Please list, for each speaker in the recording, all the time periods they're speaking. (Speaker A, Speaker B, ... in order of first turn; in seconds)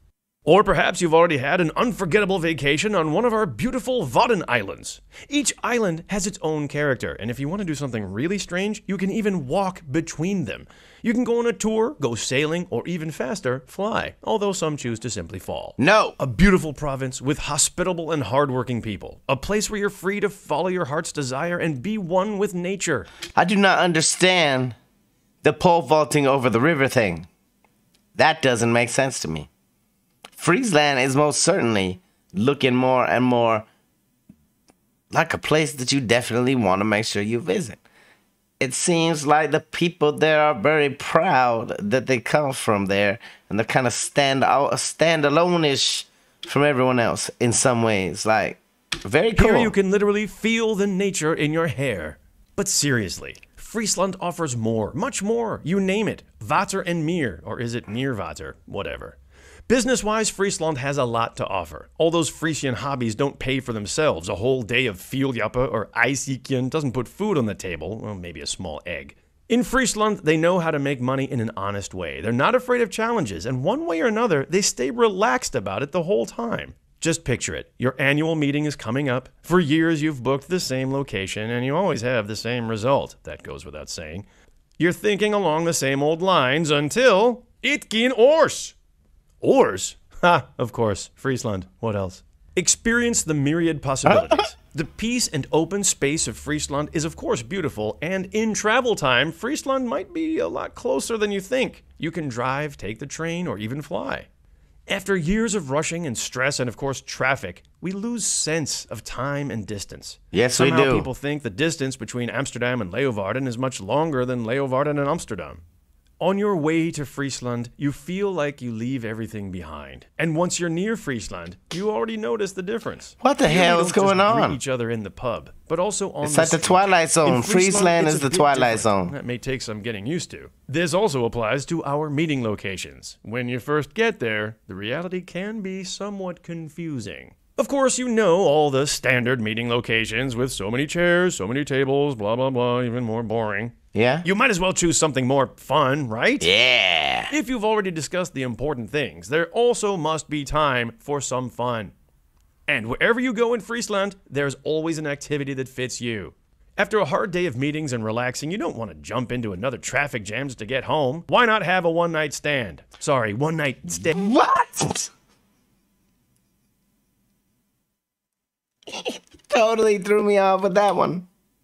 Speaker A: 0.4-23.1, 49.4-59.1, 59.7-84.2, 84.8-88.7, 89.4-104.3, 104.9-115.6, 116.2-146.5, 147.3-151.9, 152.7-164.2
Speaker B: 15.8-16.2, 23.4-24.8, 25.4-27.3, 28.1-29.5, 30.3-33.6, 35.1-37.8, 38.6-49.7, 94.1-94.4, 110.3-111.1, 123.2-124.6, 126.2-129.1, 143.9-144.2, 146.4-147.3, 164.0-165.1, 168.9-171.3